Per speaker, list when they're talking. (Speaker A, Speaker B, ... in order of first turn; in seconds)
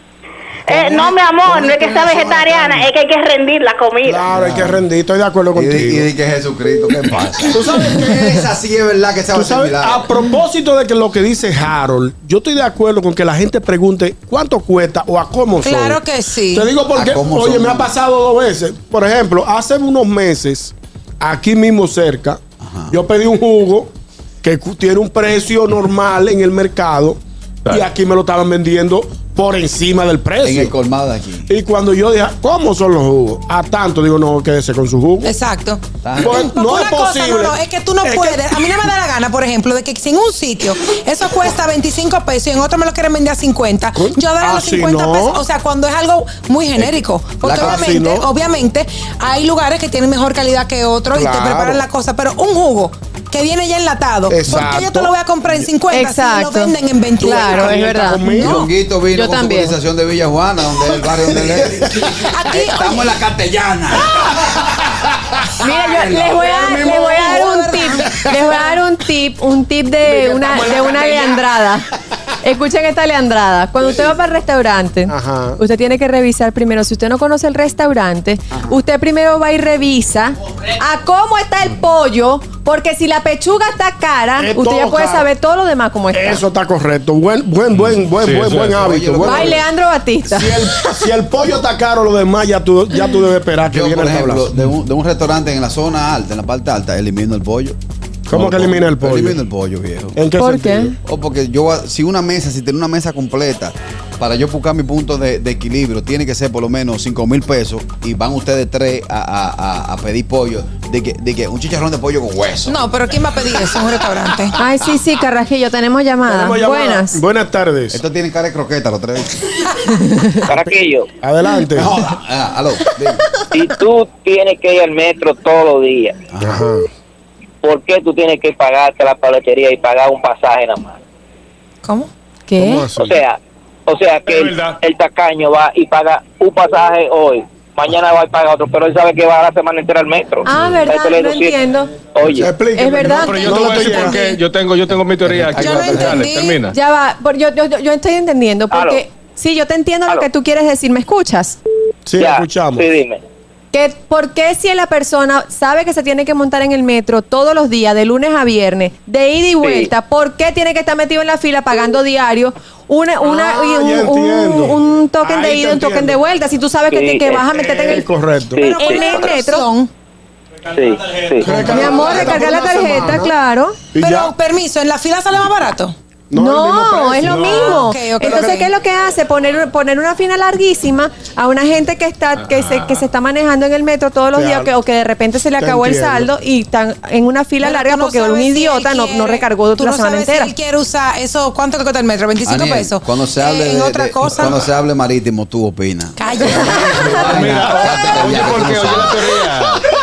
Speaker A: 0.7-2.9, 4.3-4.8, 5.5-10.1, 16.9-17.9, 22.6-22.9, 30.4-31.5, 36.0-36.5, 46.8-48.0, 58.4-64.8, 88.8-89.6, 93.7-97.8, 98.3-100.2, 101.0-112.9, 117.9-119.5, 121.8-123.2, 126.3-126.6, 192.4-199.2
Speaker B: 0.7-4.2
Speaker C: 4.0-6.1, 7.5-8.3, 9.3-23.9, 24.4-30.7, 31.5-35.3, 36.1-38.6, 43.9-45.4, 47.5-48.3, 51.1-51.8, 54.3-55.1, 57.2-58.7, 61.1-62.1, 65.6-67.5, 68.0-68.5, 70.0-71.5, 75.1-75.6, 84.4-85.3, 86.1-89.6, 90.2-94.5, 98.3-99.4, 100.2-100.9, 116.3-118.0, 121.2-121.9, 126.4-126.8, 132.6-133.2, 142.3-144.4, 145.5-146.2, 152.1-152.9, 163.2-166.2, 167.5-168.7, 171.4-173.3, 173.9-174.3, 176.3-178.6, 184.3-184.7, 185.6-186.3
Speaker D: 15.6-16.7, 35.2-57.8, 62.3-63.1, 65.7-68.8, 112.7-114.5, 131.8-132.1, 145.5-146.6, 168.6-169.9, 173.9-175.9, 177.3-178.7, 187.6-194.7, 196.2-197.3
Speaker E: 55.9-56.7, 57.3-59.8, 65.6-71.9, 72.4-86.4, 89.2-90.7, 100.4-101.0, 114.5-117.2, 119.9-120.3, 132.5-132.8, 140.4-141.9, 142.7-144.4, 146.7-151.6, 153.7-168.1, 168.8-169.7, 171.6-173.8, 176.3-190.5, 196.5-197.6
Speaker F: 87.7-88.9, 134.3-134.8, 143.0-146.7, 182.4-183.0, 197.2-199.8
Speaker G: 120.5-121.1, 123.5-126.2, 127.6-131.0, 132.9-141.6, 142.1-142.5, 148.7-149.0, 152.2-153.2, 159.6-159.9, 166.9-167.4, 168.5-169.3, 170.7-171.9